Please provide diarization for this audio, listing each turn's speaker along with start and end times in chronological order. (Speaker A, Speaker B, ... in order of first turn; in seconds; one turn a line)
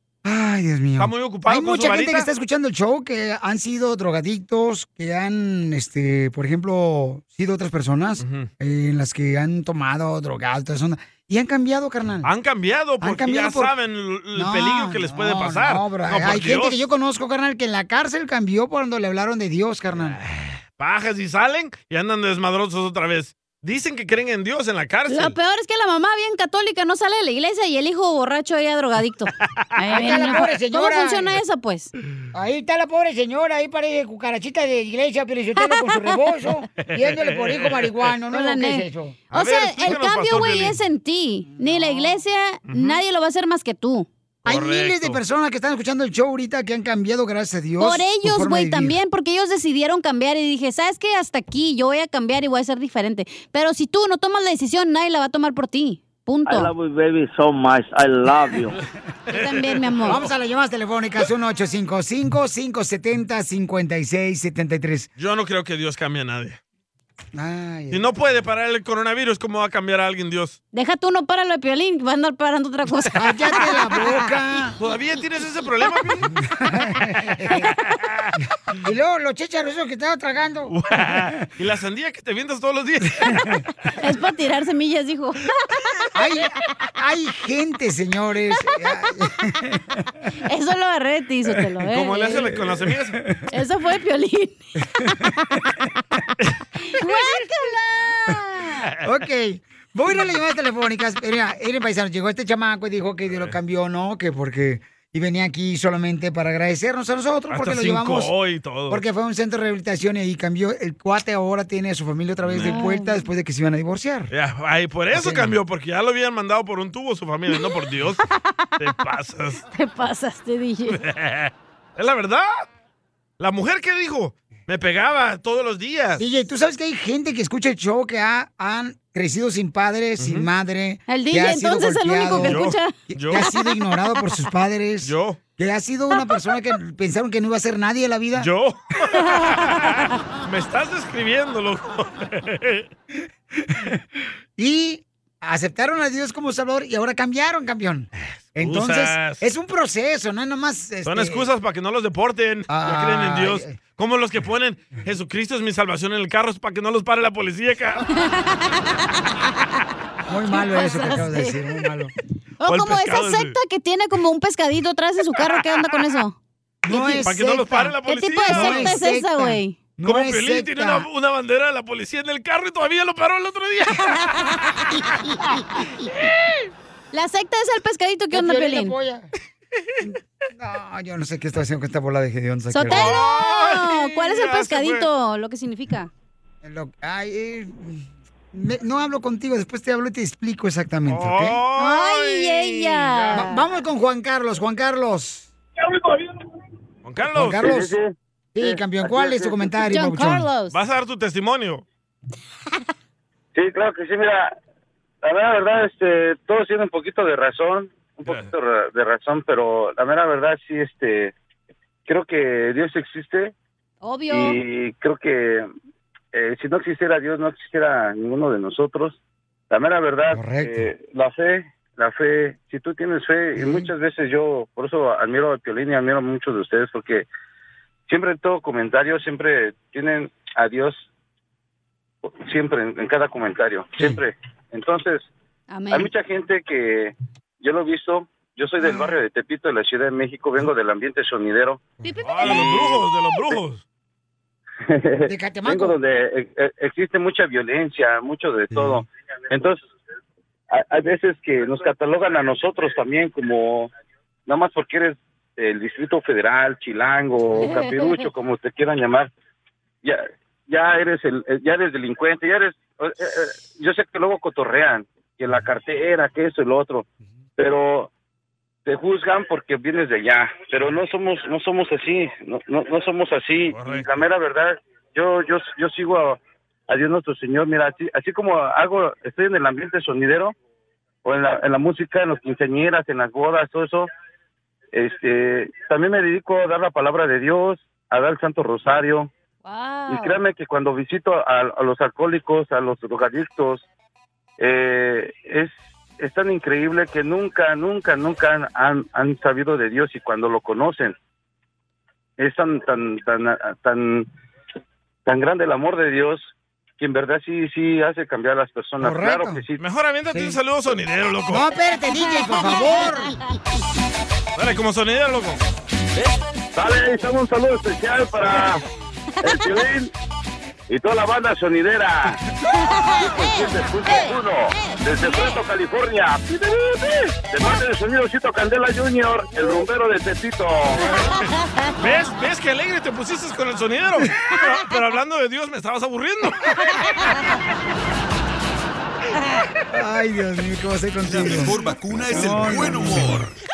Speaker A: 0.2-12.3
Speaker B: 1.0-2.3
Speaker B: 8.2-8.5
Speaker B: 12.2-16.8
Speaker A: 13.0-13.7
Speaker A: 14.3-20.2
Speaker B: 19.9-25.4
Speaker C: 25.1-31.9
Speaker A: 29.9-31.4
Speaker A: 32.3-39.2
Speaker B: 36.8-38.1
Speaker C: 38.3-44.1
Speaker B: 39.3-40.8
Speaker A: 41.6-42.2
Speaker B: 42.7-43.0
Speaker A: 44.5-49.0
Speaker B: 44.5-45.2
Speaker C: 47.8-56.7
Speaker D: 56.5-58.8
Speaker B: 59.3-60.3
Speaker C: 59.3-60.2
Speaker A: 60.1-65.1
Speaker B: 65.2-66.6
Speaker A: 67.3-68.0
Speaker B: 67.9-70.6
Speaker C: 70.7-74.2
Speaker A: 73.2-74.8
Speaker B: 74.8-76.3
Speaker A: 76.4-77.7
Speaker A: 78.8-81.3
Speaker B: 80.7-83.5
Speaker A: 83.2-83.6
Speaker C: 84.0-86.1
Speaker A: 86.2-90.1
Speaker C: 90.4-92.4
Speaker B: 91.9-93.2
Speaker A: 92.3-93.5
Speaker C: 93.5-95.5
Speaker C: 96.9-98.8
Speaker B: 98.8-99.1
Speaker A: 99.0-108.3
Speaker B: 103.3-103.6
Speaker B: 107.5-109.0
Speaker A: 108.9-114.3
Speaker B: 112.4-112.8
Speaker C: 112.6-113.2
Speaker B: 114.3-118.2
Speaker A: 115.1-115.5
Speaker B: 118.8-119.6
Speaker C: 119.7-121.0
Speaker B: 120.9-122.6
Speaker B: 123.4-126.2
Speaker A: 126.2-138.5
Speaker B: 130.2-130.5
Speaker C: 131.1-133.7
Speaker B: 132.4-133.5
Speaker B: 135.0-135.4
Speaker B: 138.4-142.9
Speaker C: 139.2-139.9
Speaker A: 143.6-143.9
Speaker A: 144.6-151.5
Speaker B: 148.6-149.4
Speaker B: 151.1-158.1
Speaker A: 152.7-153.7
Speaker C: 158.1-159.8
Speaker A: 160.3-162.1
Speaker C: 160.5-161.6
Speaker C: 162.6-166.4
Speaker B: 162.7-163.6
Speaker A: 166.9-167.9
Speaker C: 166.9-167.2
Speaker B: 167.2-169.0
Speaker C: 168.1-169.8
Speaker A: 168.5-171.1
Speaker B: 170.0-174.2
Speaker C: 174.1-174.9
Speaker A: 175.1-176.1
Speaker C: 177.1-178.9
Speaker A: 178.3-179.3
Speaker A: 180.1-183.2
Speaker C: 182.7-186.1
Speaker B: 182.9-185.1
Speaker A: 186.6-191.6
Speaker B: 191.1-193.4
Speaker C: 191.8-193.6
Speaker A: 193.3-195.5
Speaker E: 195.8-196.3
Speaker B: 197.0-197.7
Speaker A: 197.3-197.9
Speaker E: 197.6-199.7
Speaker A: 198.6-200.5
Speaker C: 199.8-200.8
Speaker B: 200.7-201.8
Speaker E: 203.6-204.5
Speaker E: 205.2-211.3
Speaker B: 208.2-208.5
Speaker E: 212.1-213.5
Speaker C: 214.0-214.6
Speaker E: 214.3-215.7
Speaker E: 216.3-219.2
Speaker E: 219.7-227.3
Speaker A: 220.3-220.9
Speaker A: 223.6-223.9
Speaker E: 228.1-231.1
Speaker E: 232.2-235.3
Speaker C: 235.7-236.1
Speaker E: 235.9-241.8
Speaker A: 238.8-239.2
Speaker C: 242.0-242.7
Speaker B: 242.2-243.8
Speaker E: 242.5-243.0
Speaker E: 244.9-249.8
Speaker A: 245.3-246.0
Speaker A: 248.7-249.0
Speaker E: 250.7-253.9
Speaker E: 254.5-259.3
Speaker C: 257.6-258.1
Speaker E: 260.0-268.1
Speaker E: 268.9-280.6
Speaker B: 273.7-274.2
Speaker E: 281.2-284.1
Speaker E: 284.9-289.3
Speaker C: 289.6-290.4
Speaker E: 290.1-293.9
Speaker E: 294.6-301.2
Speaker E: 302.4-304.3
Speaker E: 305.3-309.8
Speaker A: 309.0-309.6
Speaker B: 309.8-311.7
Speaker A: 310.3-310.6
Speaker A: 311.5-313.4
Speaker C: 312.6-312.9
Speaker B: 314.6-315.6
Speaker E: 316.7-318.8
Speaker E: 319.4-320.1
Speaker E: 320.9-322.4
Speaker C: 322.7-325.6
Speaker E: 323.2-331.2
Speaker C: 331.6-331.9
Speaker B: 332.0-336.8
Speaker A: 339.9-341.8
Speaker F: 341.2-343.5
Speaker A: 342.3-343.5